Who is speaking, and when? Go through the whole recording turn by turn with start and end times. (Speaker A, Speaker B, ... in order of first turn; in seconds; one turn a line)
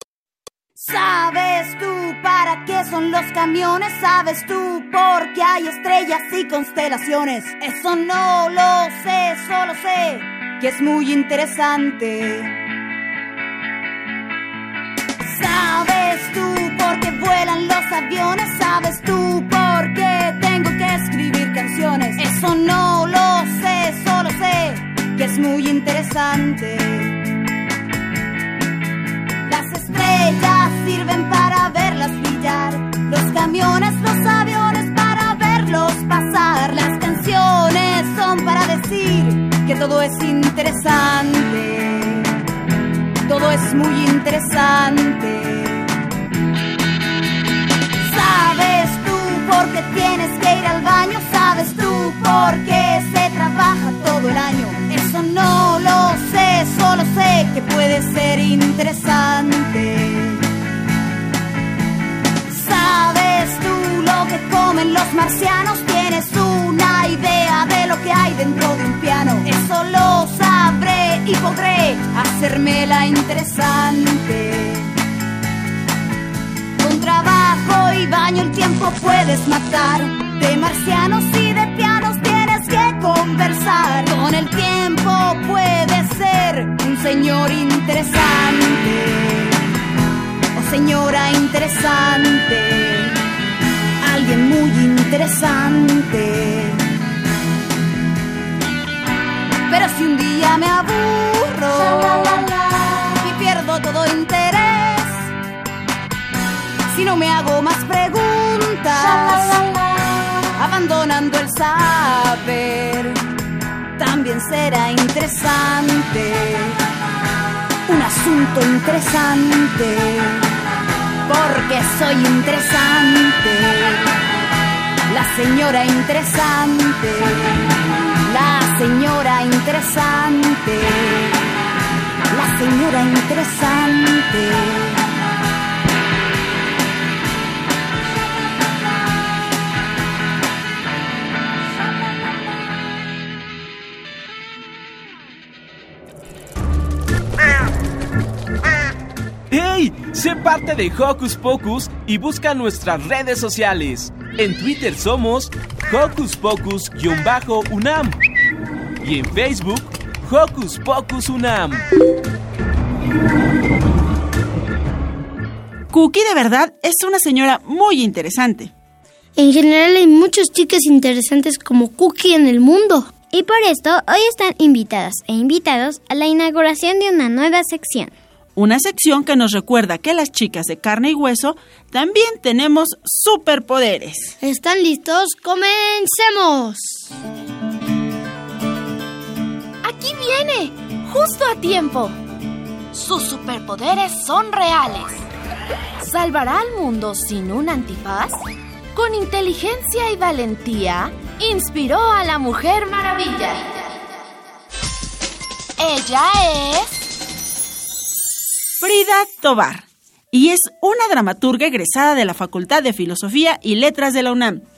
Speaker A: 0.8-12.5
Speaker A: 15.2-27.2
Speaker A: 29.5-42.3
Speaker A: 43.3-45.9
Speaker A: 48.0-60.4
Speaker A: 62.5-74.9
Speaker A: 76.8-89.6
Speaker A: 90.5-93.1
Speaker A: 94.0-96.8
Speaker A: 99.7-105.3
Speaker A: 106.9-109.6
Speaker A: 110.5-113.2
Speaker A: 114.0-116.8
Speaker A: 117.9-120.5
Speaker A: 121.3-124.1
Speaker A: 125.1-127.6
Speaker A: 128.2-131.3
Speaker A: 132.3-135.0
Speaker B: 149.5-158.1
Speaker B: 159.0-161.8
Speaker C: 165.9-168.7
Speaker D: 169.3-173.1
Speaker E: 173.3-178.1
Speaker C: 178.6-184.3
Speaker D: 184.4-187.1
Speaker F: 189.8-192.2
Speaker F: 192.9-195.2
Speaker F: 196.0-198.4
Speaker F: 198.9-204.0
Speaker F: 205.8-207.0
Speaker C: 208.8-214.6